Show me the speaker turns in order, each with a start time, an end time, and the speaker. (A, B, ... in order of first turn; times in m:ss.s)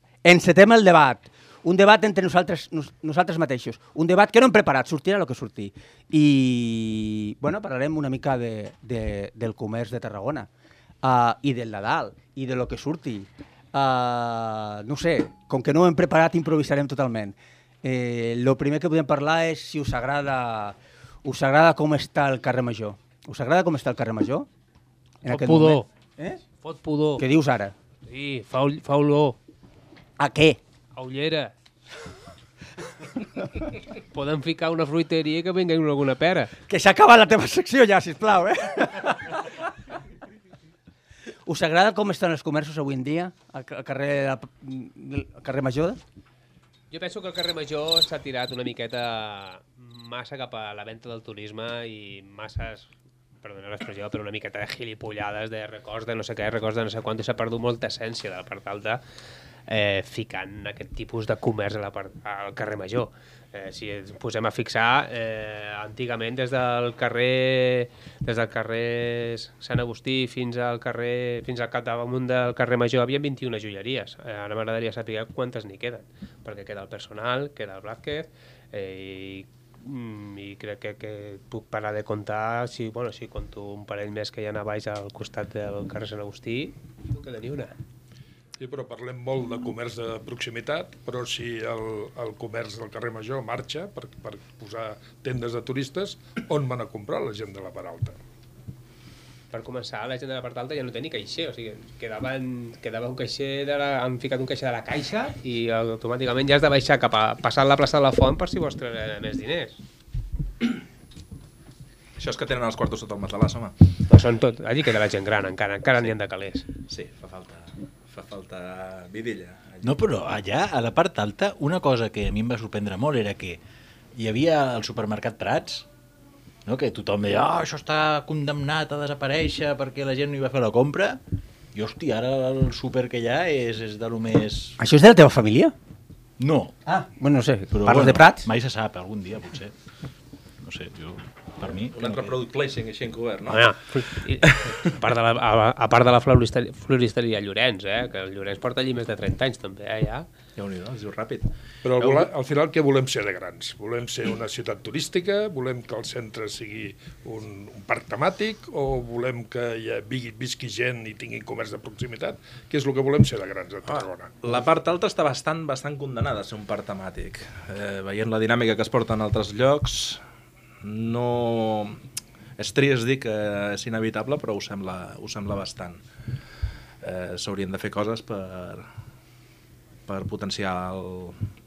0:00.2-0:10.5 A
0:11.0-0:24.5 A
0:25.2-0:26.4 A
0:25.3-0:25.9 B
0:26.6-0:27.2 B
0:27.2-0:27.7 A
0:28.1-0:29.4 B
0:30.2-0:30.6 A
0:31.0-0:31.5 B
0:34.1-0:36.5 B
0:36.7-0:39.6 A
0:41.5-0:46.0 A
0:46.9-0:52.9 B
0:53.4-0:59.0 B
0:59.7-1:27.8 B
1:28.6-1:38.2 C
1:39.5-1:49.8 B
1:52.2-1:53.7 D
1:54.1-1:56.6 B
1:56.9-2:00.0 D
1:59.8-2:03.6 E
2:04.2-2:05.9 E
2:06.6-2:11.2 E
2:11.7-2:14.8 E
2:14.8-2:15.7 A
2:16.4-2:16.7 E
2:16.9-2:18.5 A
2:17.7-2:19.7 E
2:20.6-2:22.3 E
2:21.9-2:23.7 D
2:23.5-2:30.3 B
2:30.6-2:32.3 D
2:31.8-2:44.3 C
2:44.0-2:50.2 D
2:50.8-2:52.0 D
2:52.6-2:56.0 D
2:57.0-2:58.9 D
3:00.1-3:01.4 D